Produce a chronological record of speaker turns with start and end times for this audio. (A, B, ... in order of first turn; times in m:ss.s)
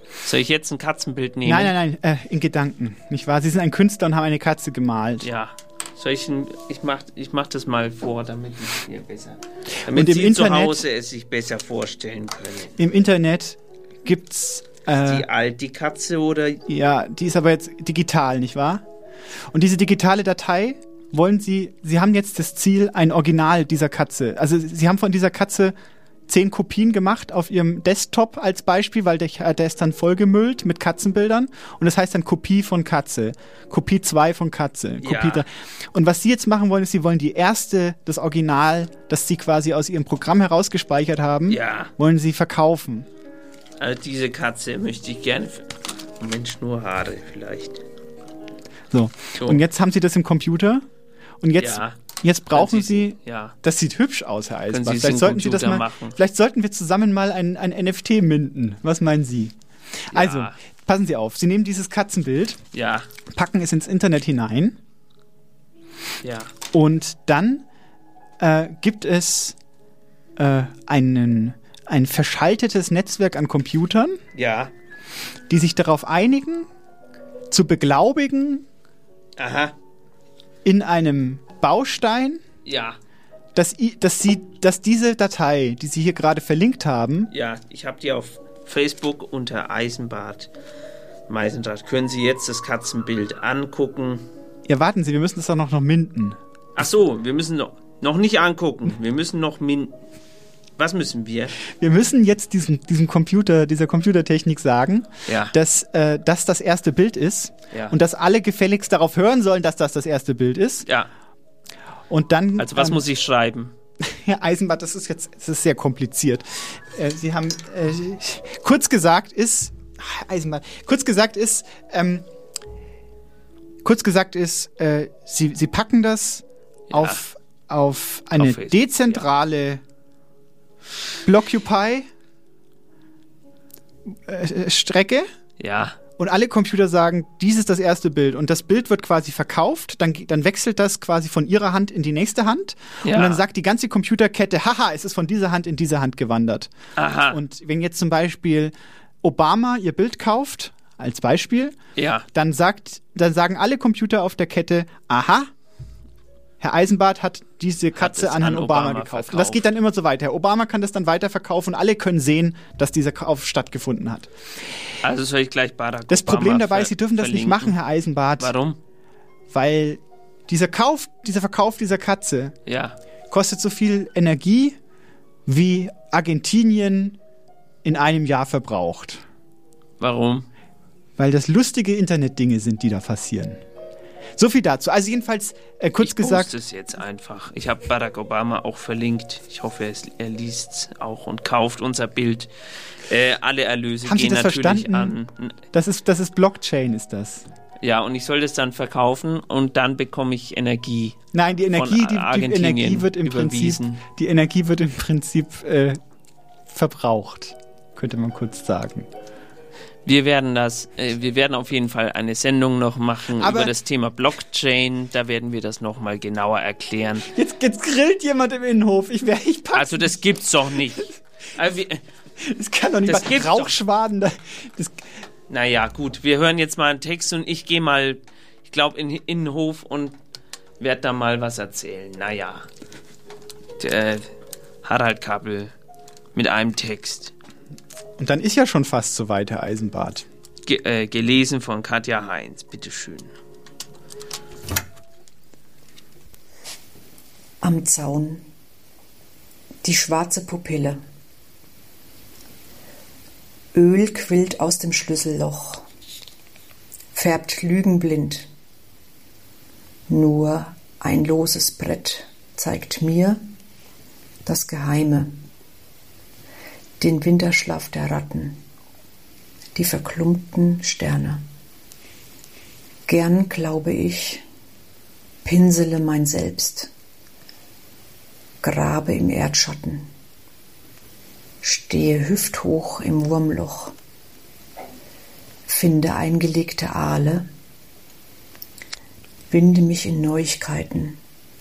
0:00.2-0:01.7 A
0:01.4-0:05.3 B
0:05.2-0:12.8 A
0:09.9-0:10.8 B
0:12.8-0:15.3 B
0:14.9-0:16.6 A
0:16.7-0:18.8 B
0:19.5-0:25.8 B
0:26.3-0:43.1 B
0:35.0-0:35.4 A
0:41.5-0:41.9 A
0:43.8-0:47.8 A
0:48.9-0:50.8 B
0:49.4-0:49.6 A
0:51.4-0:59.5 B
0:51.6-0:52.0 A
0:52.5-0:53.5 A
0:54.7-0:56.2 A
1:00.1-1:02.6 B
1:00.1-1:00.6 A
1:02.7-1:03.1 A
1:03.3-1:04.8 B
1:06.2-1:06.5 A
1:06.7-1:07.6 B
1:08.4-1:09.6 B
1:10.4-1:14.2 B
1:14.3-1:14.7 A
1:15.5-1:16.7 B
1:17.5-1:18.6 B
1:19.4-1:19.7 A
1:20.6-1:22.4 B
1:22.6-1:23.0 A
1:23.5-1:27.3 B
1:27.3-1:30.5 A
1:31.3-1:34.2 A
1:34.7-1:36.4 B
1:36.8-1:39.9 A
1:40.8-1:41.6 A
1:41.8-1:50.8 B
1:45.3-1:45.5 A
1:47.7-1:48.0 A
1:52.1-1:53.0 B
1:52.6-1:53.7 A
1:54.0-2:02.2 B
2:03.8-2:09.8 B
2:06.9-2:07.2 A
2:08.4-2:09.2 A
2:11.2-2:12.1 B
2:14.1-2:15.3 B
2:15.6-2:16.0 A
2:16.2-2:26.7 B
2:23.0-2:23.4 A
2:27.0-2:27.4 A
2:27.3-2:31.8 B
2:32.0-2:32.3 A
2:32.3-2:35.5 B
2:36.6-2:44.3 B
2:38.0-2:39.7 A
2:45.0-2:47.8 A
2:46.1-2:48.5 B
2:48.4-2:48.8 A
2:49.5-2:52.6 B
2:52.6-2:53.0 A
2:53.3-2:54.8 B
2:55.5-2:57.2 B
2:57.8-2:59.2 B
3:00.0-3:00.5 A
3:01.2-3:03.6 B
3:04.4-3:06.5 B
3:06.0-3:12.5 A
3:13.1-3:15.6 A
3:14.0-3:15.1 B
3:15.7-3:17.4 B
3:17.8-3:21.2 A
3:21.3-3:26.0 B
3:21.7-3:24.0 A
3:26.7-3:29.1 B
3:30.0-3:37.3 A
3:33.4-3:33.7 B
3:37.3-3:41.1 B
3:39.7-3:42.0 A
3:42.4-3:45.0 B
3:43.0-3:43.8 A
3:45.5-3:50.2 A
3:50.8-3:52.7 A
3:53.8-3:54.3 A
3:54.8-3:55.7 A
3:56.3-3:57.3 A
3:58.2-4:00.2 B
4:00.6-4:03.3 A
4:07.6-4:08.4 C
4:09.8-4:11.0 C
4:13.7-4:15.8 C
4:17.1-4:18.5 C
4:20.1-4:23.4 C
4:24.4-4:25.4 C
4:27.0-4:28.6 C
4:29.7-4:31.4 C
4:33.1-4:34.4 C
4:35.4-4:36.9 C
4:38.6-4:40.1 C
4:41.6-4:43.9 C
4:45.7-4:47.5 C
4:49.5-4:51.2 C